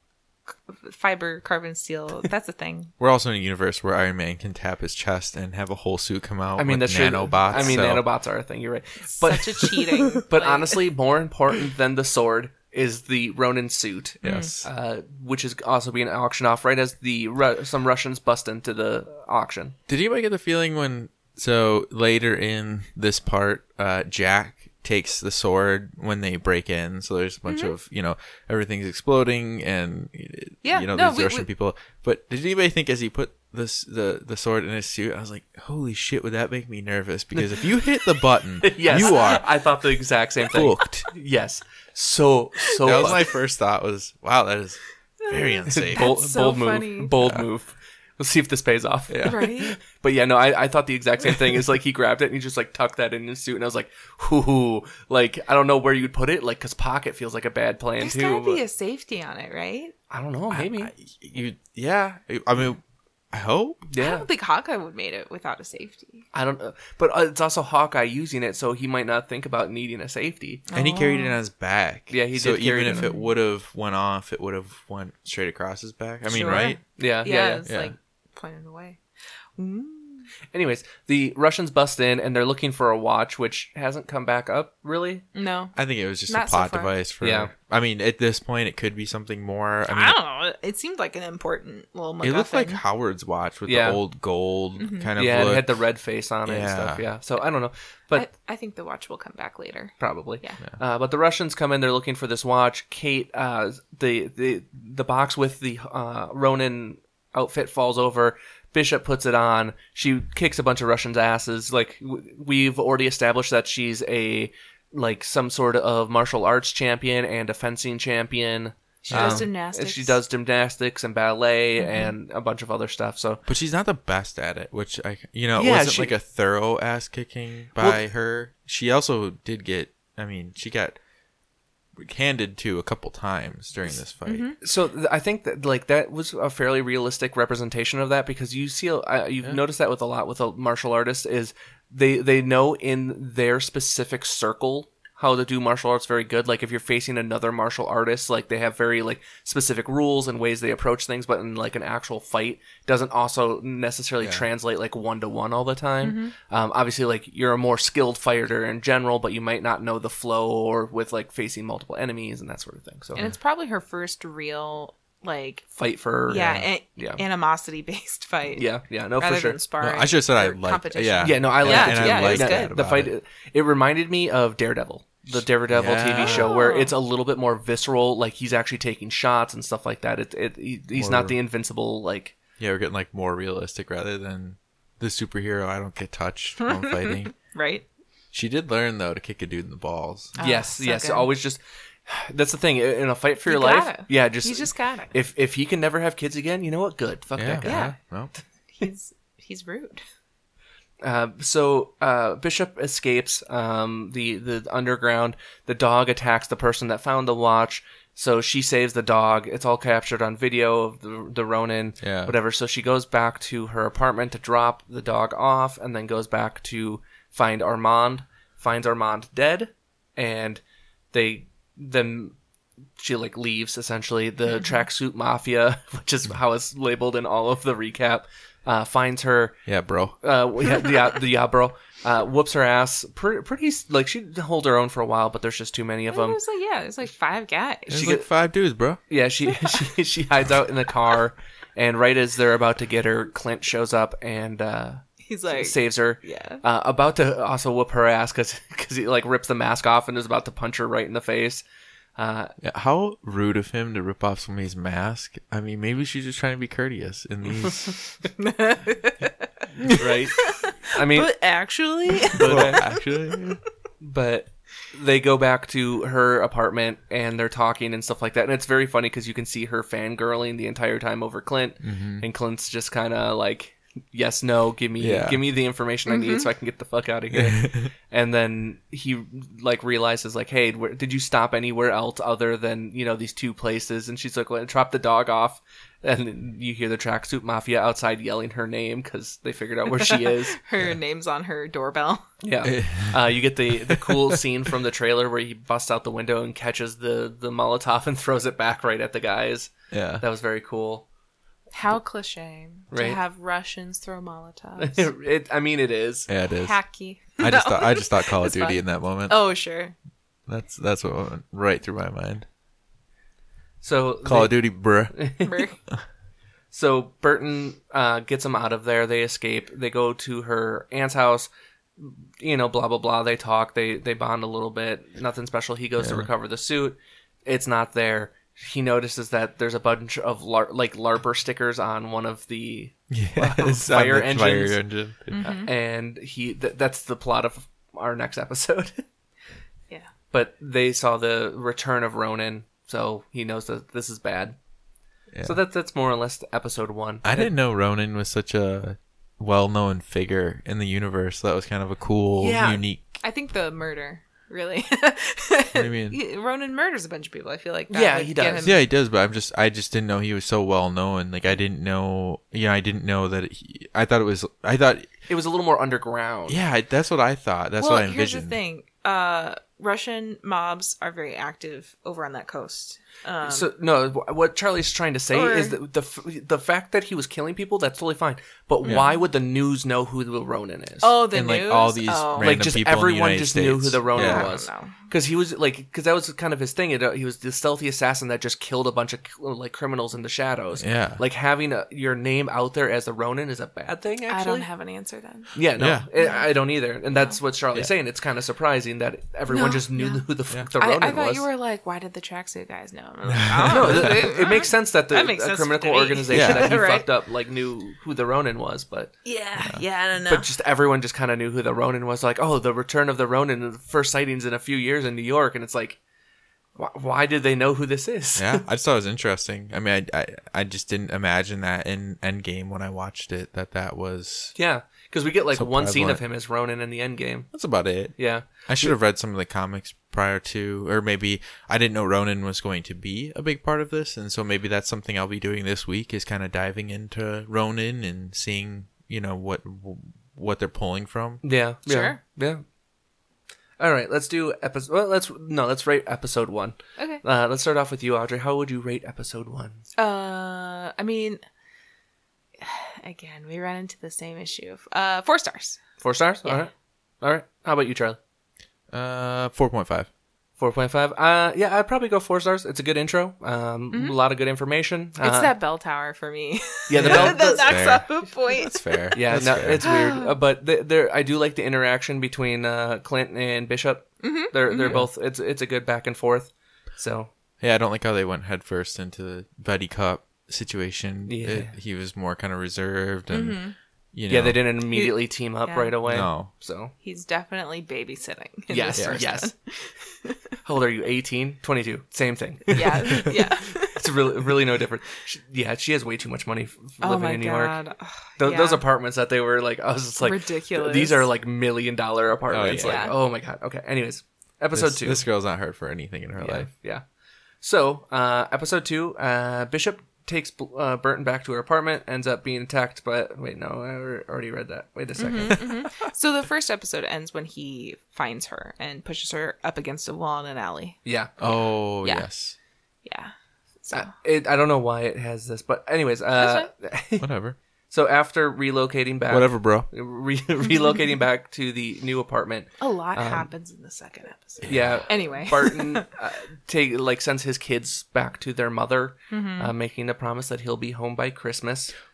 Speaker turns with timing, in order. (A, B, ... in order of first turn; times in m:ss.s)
0:00.7-0:02.9 A
0:03.0-0:08.0 B
0:06.6-0:19.8 C
0:09.2-0:10.8 A
0:14.2-0:14.7 B
0:14.2-0:14.5 A
0:19.9-0:39.4 B
0:27.5-0:27.7 A
0:30.6-0:31.5 A
0:37.3-0:37.7 C
0:38.6-0:43.3 C
0:38.9-0:39.4 A
0:40.5-0:41.1 B
0:42.8-0:46.1 B
0:45.2-0:47.1 A
0:45.7-0:58.6 C
0:49.1-0:49.4 B
0:49.2-0:49.7 A
0:58.0-0:59.9 A
1:00.1-1:00.9 C
1:00.5-1:02.8 B
1:03.3-1:03.8 B
1:03.9-1:04.2 C
1:04.0-1:06.2 A
1:06.3-1:10.6 C
1:10.7-1:11.4 A
1:10.7-1:16.8 B
1:12.1-1:13.1 C
1:12.9-1:13.2 A
1:16.3-1:19.0 A
1:16.4-1:17.6 C
1:17.6-1:17.9 B
1:19.6-1:20.3 A
1:20.5-1:25.2 C
1:25.3-1:25.8 A
1:25.8-1:30.2 B
1:26.3-1:26.9 A
1:27.2-1:27.5 C
1:29.9-1:32.8 A
1:32.2-1:35.6 B
1:33.7-1:34.0 C
1:34.8-1:35.1 A
1:35.2-1:38.3 C
1:36.4-1:37.0 B
1:38.1-1:40.6 A
1:40.0-2:03.4 C
1:59.0-2:00.2 A
1:59.1-1:59.5 B
2:01.8-2:02.1 A
2:03.4-2:11.0 B
2:05.6-2:06.1 C
2:12.0-2:14.5 B
2:14.2-2:14.6 A
2:14.6-2:43.2 C
2:36.0-2:36.3 A
2:43.2-2:45.7 A
2:45.8-2:47.2 C
2:46.3-2:52.7 A
2:48.5-2:49.6 C
2:49.8-2:53.1 B
2:51.2-3:02.4 C
2:55.7-2:56.5 B
2:56.2-2:56.9 A
3:00.9-3:01.4 B
3:02.6-3:07.3 B
3:06.6-3:07.8 A
3:08.3-3:10.3 B
3:10.4-3:11.3 A
3:10.4-3:17.9 C
3:13.4-3:15.1 A
3:17.4-3:18.3 B
3:17.6-3:18.0 A
3:18.7-3:20.0 A
3:21.0-3:40.6 C
3:32.0-3:32.3 B
3:41.1-3:42.4 C
3:43.0-3:49.6 C
3:49.6-3:50.2 B
3:50.2-3:56.4 C
3:56.1-3:58.2 A
3:57.9-3:59.0 B
3:58.0-3:58.2 C
3:59.1-4:11.6 C
3:59.6-3:59.9 A
4:05.2-4:06.6 A
4:12.2-4:12.5 C
4:12.6-4:18.0 B
4:18.4-4:19.5 A
4:19.8-4:21.3 C
4:20.4-4:23.0 A
4:22.2-4:22.9 C
4:22.4-4:23.6 B
4:24.0-4:50.6 C
4:31.8-4:32.2 B
4:35.0-4:35.4 B
4:36.1-4:36.5 A
4:37.3-4:37.9 B
4:49.9-4:52.3 A
4:52.4-5:01.0 C
4:52.6-4:54.4 B
4:59.9-5:00.2 B
5:01.7-5:05.1 A
5:02.9-5:03.2 C
5:04.8-5:06.3 C
5:06.3-5:06.8 B
5:06.5-5:09.9 A
5:07.4-5:09.4 B
5:10.5-5:12.4 B
5:13.8-5:15.6 C
5:14.2-5:15.3 B
5:15.4-5:15.8 A
5:16.7-5:34.8 C
5:26.0-5:26.3 B
5:33.1-5:35.5 B
5:35.3-5:35.7 A
5:35.4-5:39.0 C
5:40.3-5:44.6 C
5:45.3-5:45.6 B
5:45.4-5:47.5 C
5:47.2-5:53.2 B
5:52.4-5:52.8 C
5:53.2-5:58.8 A
5:55.7-5:56.2 B
5:57.9-5:58.7 C
5:58.6-6:05.1 B
6:05.3-6:06.6 C
6:06.5-6:08.6 B
6:07.8-6:13.7 A
6:13.4-6:21.1 C
6:15.3-6:15.8 A
6:18.8-6:19.2 A
6:21.0-6:22.6 A
6:21.3-6:24.5 B
6:22.4-6:34.7 C
6:24.1-6:24.9 A
6:30.8-6:31.2 B
6:34.3-6:35.5 A
6:35.5-6:41.4 C
6:35.8-6:36.0 B
6:36.2-6:36.5 A
6:39.5-6:47.1 A
6:43.3-6:44.2 B
6:43.7-6:49.1 C
6:46.3-6:46.7 B
6:49.2-6:50.4 A
6:50.2-6:56.0 C
6:56.8-6:58.6 C
6:58.4-7:04.5 B
7:04.5-7:07.5 C
7:05.5-7:06.2 B
7:07.5-7:21.4 B
7:08.2-7:08.9 C
7:21.4-7:22.6 C
7:21.8-7:22.2 A
7:23.8-7:29.8 C
7:27.0-7:27.2 A
7:30.0-7:31.4 A
7:32.6-7:35.8 A
7:36.0-7:38.2 C
7:38.9-7:40.1 B
7:40.6-7:45.5 C
7:43.9-7:44.2 A
7:45.2-7:49.2 A
7:46.9-7:47.8 C
7:47.0-7:49.9 B
7:49.1-7:57.3 C
7:49.8-7:50.3 A
7:54.2-7:55.0 A
7:57.6-8:03.6 B
8:01.3-8:01.7 C
8:03.3-8:03.7 A
8:04.1-8:04.6 B
8:04.3-8:06.9 C
8:04.9-8:05.9 A
8:06.1-8:06.5 B
8:07.0-8:10.6 A
8:08.7-8:09.5 C
8:10.6-8:17.8 C
8:12.7-8:14.2 A
8:17.0-8:18.8 A
8:18.4-8:25.2 C
8:20.2-8:21.3 A
8:22.5-8:23.1 B
8:22.8-8:23.1 A
8:24.7-8:26.7 B
8:26.4-8:27.0 C
8:27.6-8:35.6 C
8:35.2-8:41.0 A
8:41.0-8:41.3 C
8:41.4-8:42.6 B
8:43.0-8:44.1 A
8:43.9-8:47.2 C
8:46.3-8:46.7 A
8:47.2-8:47.6 B
8:47.9-8:53.5 C
8:49.3-8:49.9 B
8:52.8-8:56.1 A
8:54.6-8:55.0 B
8:54.6-9:01.9 C
8:59.3-8:59.7 A